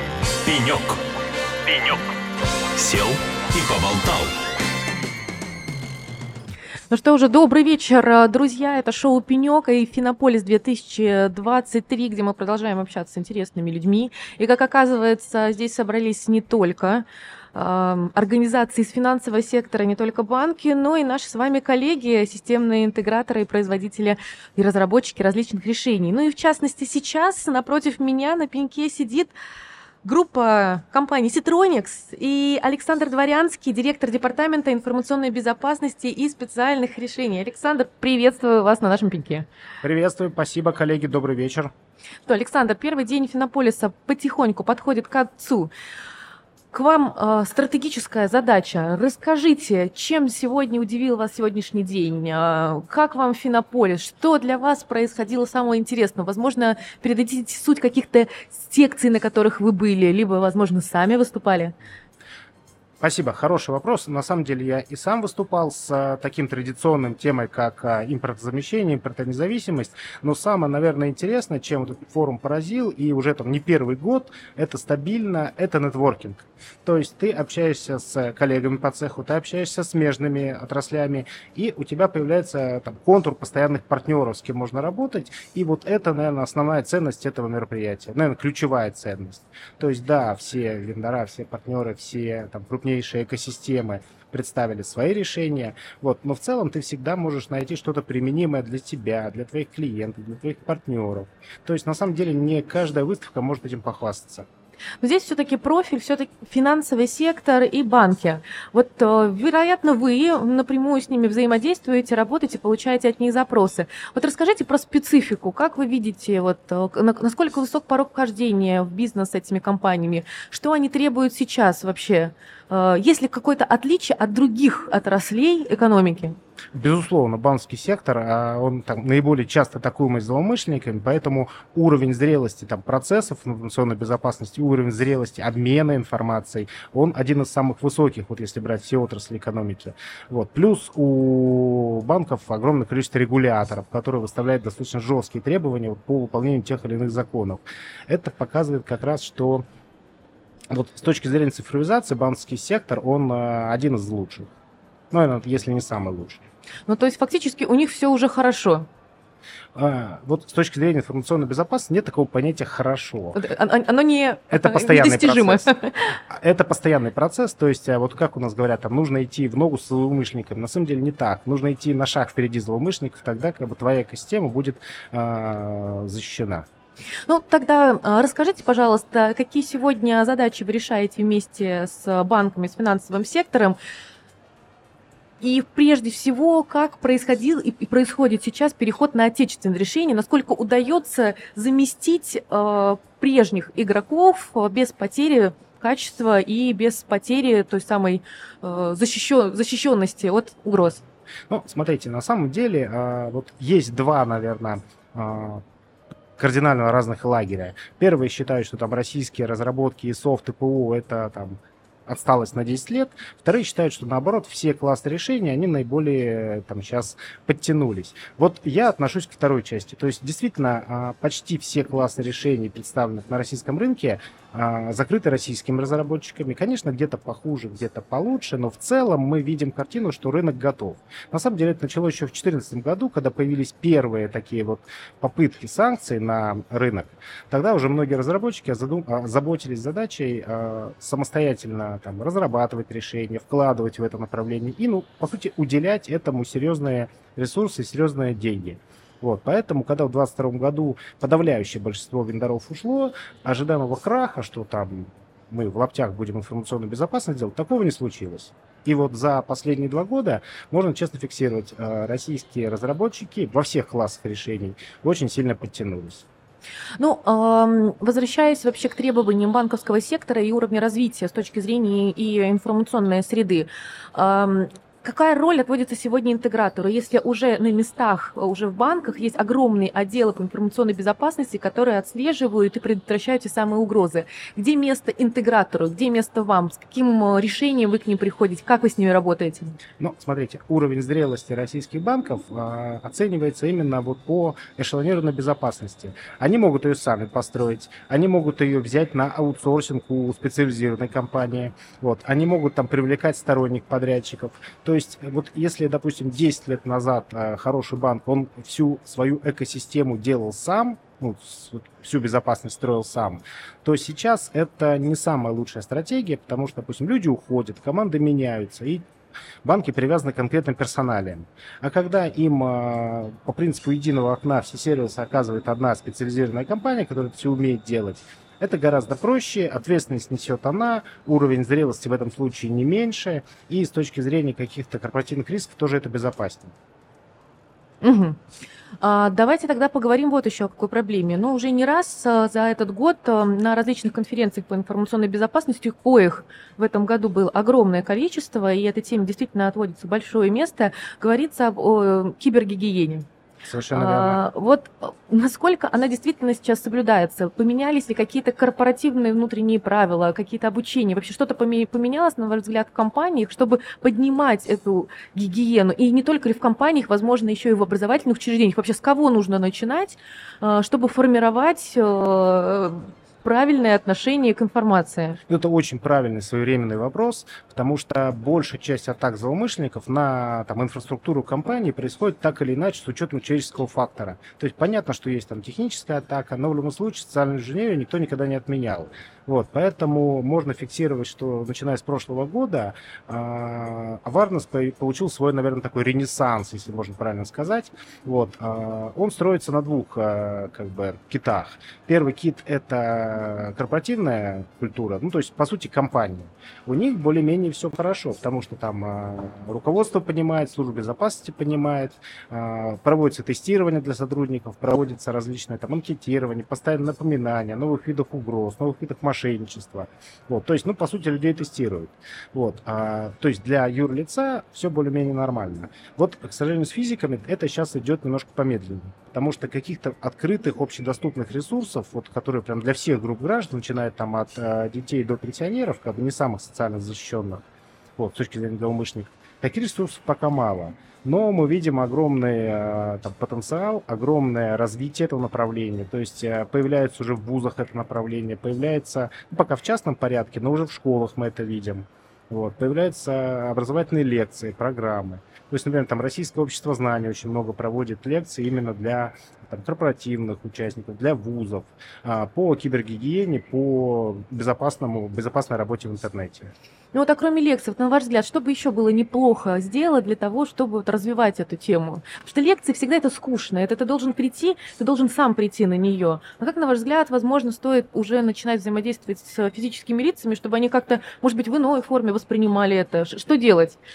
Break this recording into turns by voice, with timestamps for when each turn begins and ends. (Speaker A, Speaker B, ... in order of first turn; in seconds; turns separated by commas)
Speaker A: 0.4-1.0, Speaker A: 1.6-2.1, Speaker A: 2.8-4.3, Speaker B: 6.9-29.3, Speaker B: 30.0-39.5, Speaker C: 39.8-41.7, Speaker B: 42.3-45.7, Speaker B: 46.7-61.8, Speaker C: 63.0-104.5, Speaker B: 105.0-126.4, Speaker C: 126.8-149.6, Speaker C: 150.7-154.5, Speaker C: 155.1-156.4, Speaker B: 156.9-158.9, Speaker C: 159.8-163.4, Speaker B: 163.3-166.2, Speaker C: 164.5-165.7, Speaker C: 166.3-176.7, Speaker B: 177.3-183.8, Speaker B: 185.4-201.0, Speaker C: 201.5-205.6, Speaker C: 206.4-266.3, Speaker B: 267.0-289.8, Speaker C: 290.0-319.0, Speaker C: 319.6-336.7, Speaker B: 338.0-338.4, Speaker B: 339.0-353.3, Speaker C: 353.6-354.4, Speaker B: 353.9-375.4, Speaker C: 375.5-437.6, Speaker C: 438.2-466.7, Speaker B: 467.1-484.0